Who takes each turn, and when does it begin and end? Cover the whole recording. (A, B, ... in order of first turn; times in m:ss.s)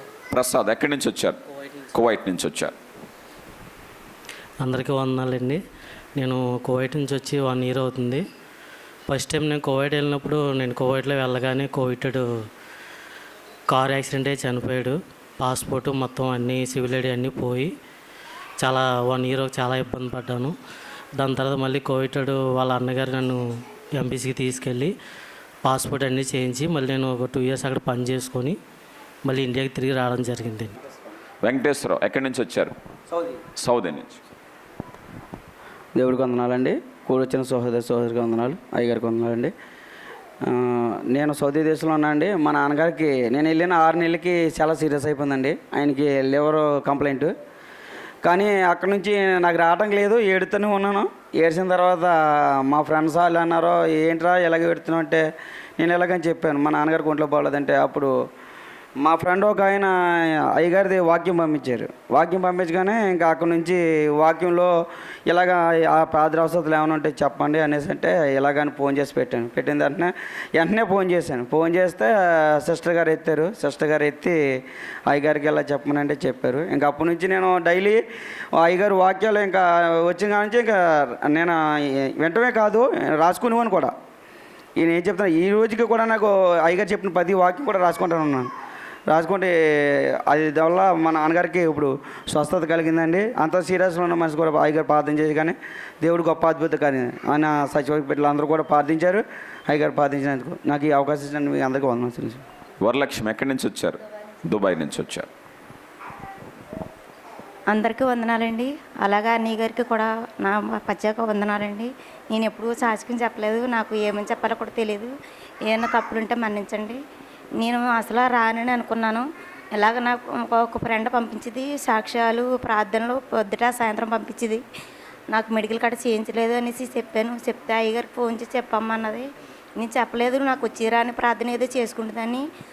0:00.3-0:01.4 A
0:01.9-0:02.7 A
0:04.6-0:05.6 B
0:06.2-0:08.2 B
0:09.1-0:12.3 B
0:13.7-0:17.7 B
0:18.6-0:20.6 B
0:21.2-0:25.0 B
0:25.6-0:28.6 B
0:29.2-0:30.8 B
0:31.4-0:32.8 A
0:33.6-0:34.2 A
0:36.0-0:39.5 C
0:40.5-0:47.3 C
0:48.2-0:55.3 C
0:55.8-0:58.1 C
0:59.0-1:04.7 C
1:05.3-1:14.4 C
1:15.1-1:18.0 C
1:18.6-1:23.9 C
1:24.8-1:28.5 C
1:29.1-1:42.4 C
1:42.8-1:45.3 A
1:47.7-1:55.1 D
1:55.7-1:57.0 D
1:57.6-1:59.2 D
1:59.8-2:04.6 D
2:05.3-2:09.2 D
2:09.8-2:12.4 D